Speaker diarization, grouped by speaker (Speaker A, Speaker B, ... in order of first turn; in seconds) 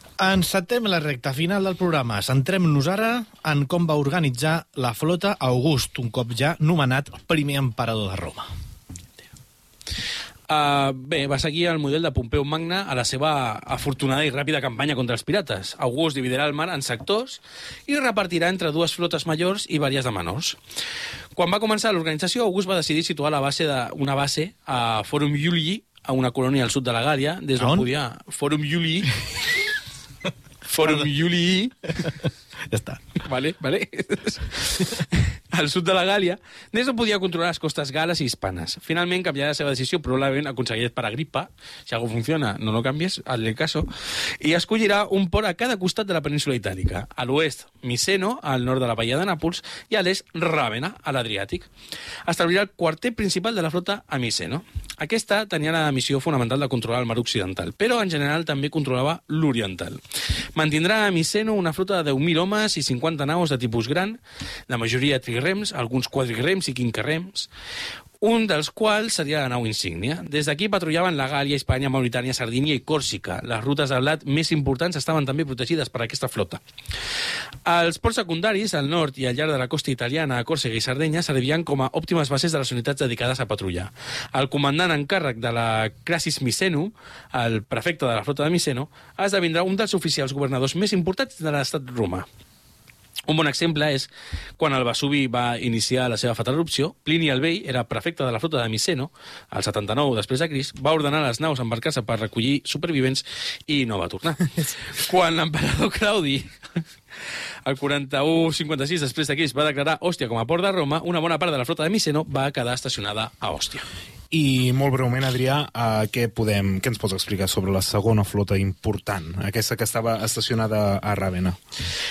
Speaker A: 0.2-8.5, 27.6-27.9, 32.7-33.1
Speaker B: 10.5-20.6, 21.4-29.1, 30.7-31.7, 33.2-43.9, 44.4-51.7, 52.2-60.0, 60.5-67.5, 68.2-76.6, 77.7-92.3, 93.3-106.5, 107.6-113.9
Speaker C: 114.3-121.6